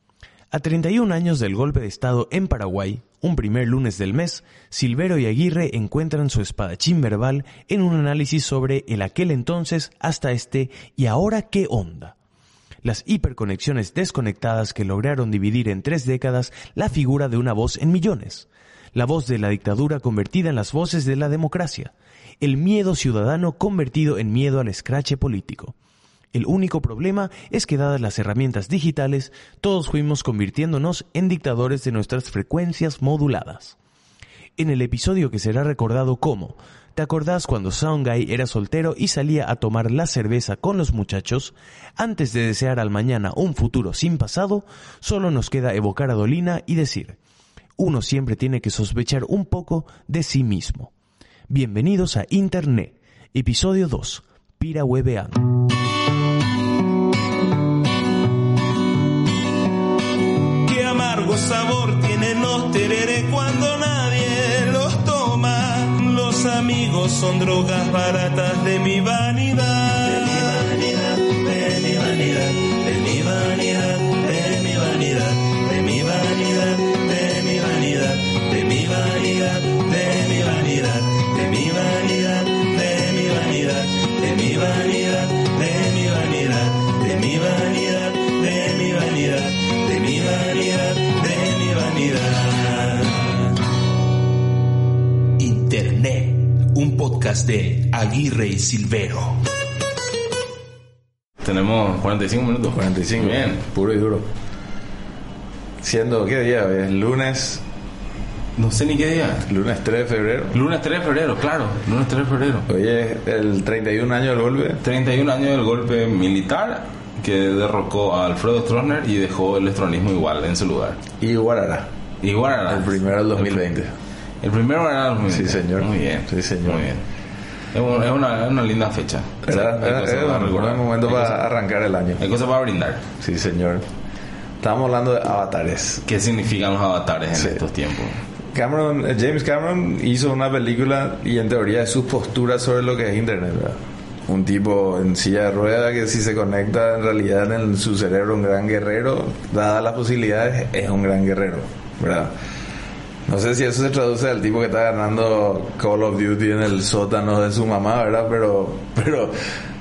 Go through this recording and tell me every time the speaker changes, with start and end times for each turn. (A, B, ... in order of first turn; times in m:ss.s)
0:00.5-0:12.2 A
0:12.8-0:25.8 A
0:26.3-0:33.8 A
0:34.6-0:47.2 A
0:47.8-0:50.9 A
0:51.5-0:55.5 A
1:00.6-1:33.6 B
1:35.4-1:39.4 B
1:41.4-1:43.6 C
1:42.7-1:44.2 D
1:45.8-1:47.6 D
1:48.6-1:49.5 C
1:49.5-1:50.6 D
1:50.5-1:52.7 C
1:52.7-1:54.8 D
1:54.8-2:01.0 C
2:01.2-2:01.9 D
2:02.2-2:03.6 C
2:02.7-2:03.9 D
2:04.4-2:07.0 C
2:05.3-2:06.9 D
2:07.7-2:11.4 C
2:09.5-2:12.2 D
2:12.2-2:13.1 C
2:13.2-2:13.8 D
2:14.6-2:16.0 D
2:16.1-2:18.2 C
2:17.4-2:17.6 D
2:18.5-2:32.3 D
2:33.3-2:39.3 D